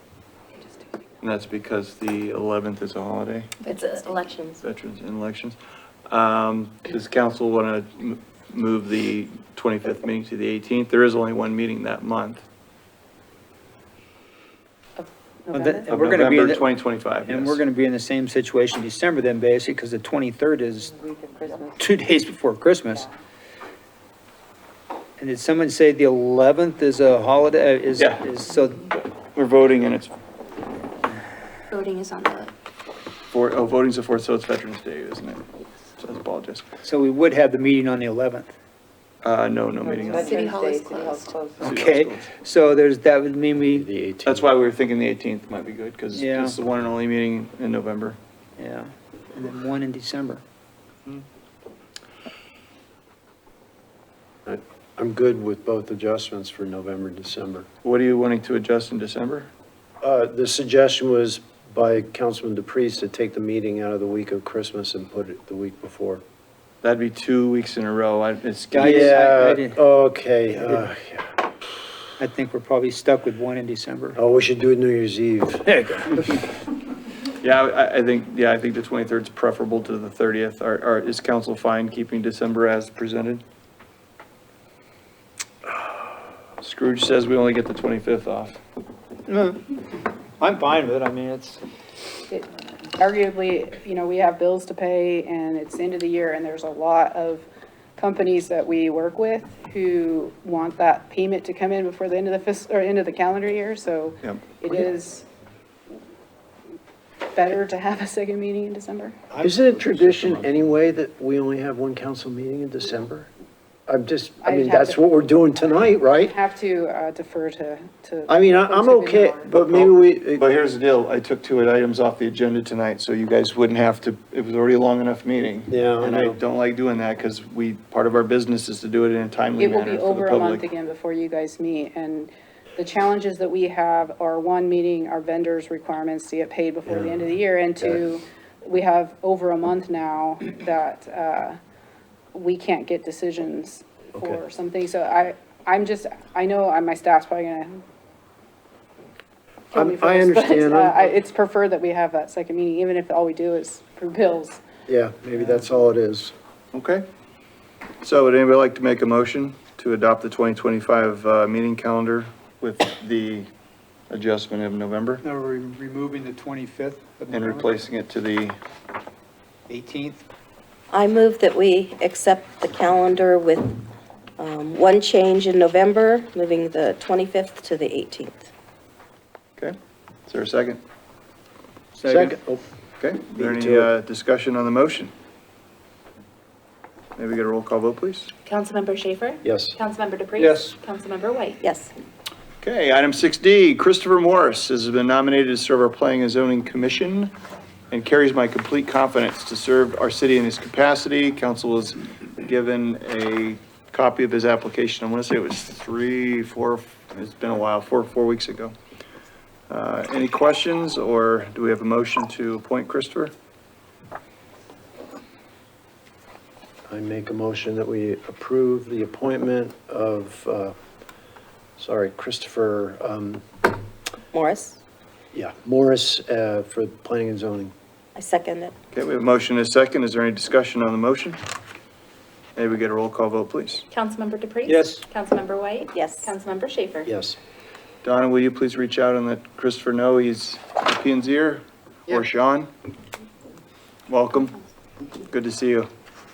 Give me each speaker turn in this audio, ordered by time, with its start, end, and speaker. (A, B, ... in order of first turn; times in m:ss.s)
0:01.2-0:03.5 A
0:03.6-0:04.2 B
0:03.7-0:04.6 C
0:04.6-0:12.4 A
0:15.0-0:15.9 D
0:15.5-0:16.7 E
0:15.9-0:17.6 A
0:17.2-0:20.9 E
0:21.8-0:23.1 E
0:25.2-0:28.8 E
0:28.0-0:28.2 A
0:28.9-0:30.2 A
0:31.7-0:32.5 B
0:33.3-0:35.4 A
0:36.0-0:36.6 A
0:36.8-0:38.5 E
0:39.2-0:40.5 A
0:40.1-0:41.3 B
0:41.6-0:43.9 E
0:41.6-0:42.3 A
0:43.7-0:44.5 F
0:44.2-0:48.2 A
0:46.1-0:46.6 E
0:48.6-0:50.4 E
0:54.5-0:57.7 F
0:57.8-0:59.5 A
1:00.0-1:06.2 F
1:06.8-1:09.2 A
1:08.7-1:09.8 E
1:08.8-1:11.3 F
1:10.6-1:10.9 E
1:12.2-1:14.2 E
1:14.2-1:15.6 F
1:15.7-1:16.4 E
1:17.4-1:23.4 A
1:26.6-1:28.6 A
1:29.3-1:29.7 E
1:30.4-1:31.6 E
1:32.3-1:45.3 D
1:44.2-1:44.6 A
1:47.3-1:49.2 D
1:49.3-1:50.5 E
1:49.4-1:53.3 F
1:53.9-1:56.3 F
1:54.4-1:55.0 D
1:56.2-1:59.5 D
1:58.3-2:00.4 F
1:59.5-2:10.6 A
2:05.7-2:06.4 F
2:09.6-2:21.6 D
2:16.9-2:17.3 F
2:17.8-2:18.1 F
2:22.3-2:27.8 D
2:29.7-2:34.6 D
2:29.7-2:31.0 F
2:34.9-2:36.3 F
2:36.7-2:37.0 A
2:38.0-2:43.5 A
2:44.1-2:45.2 A
2:45.2-2:47.7 E
2:47.3-2:48.6 A
2:49.7-2:50.2 E
2:50.9-2:53.8 C
2:54.4-2:58.5 C
3:00.3-3:00.8 A
3:02.0-3:02.4 E
3:02.1-3:02.6 F
3:03.0-3:05.1 A
3:03.4-3:03.9 F
3:07.2-3:08.3 A
3:08.5-3:11.6 B
3:09.4-3:09.8 F
3:10.4-3:10.8 E
3:11.6-3:11.9 C
3:12.6-3:17.3 A
3:17.9-3:28.7 A
3:29.7-3:33.3 A
3:36.9-3:40.7 F
3:41.8-3:43.5 F
3:44.3-3:44.8 C
3:45.3-3:47.7 F
3:48.2-3:48.7 C
3:48.9-3:51.4 A
3:52.6-3:53.9 A
3:53.9-3:57.1 B
3:54.7-3:55.0 E
3:55.9-3:56.3 C
3:57.0-3:57.4 F
3:58.0-4:02.7 A
4:04.1-4:04.6 A
4:05.3-4:05.9 A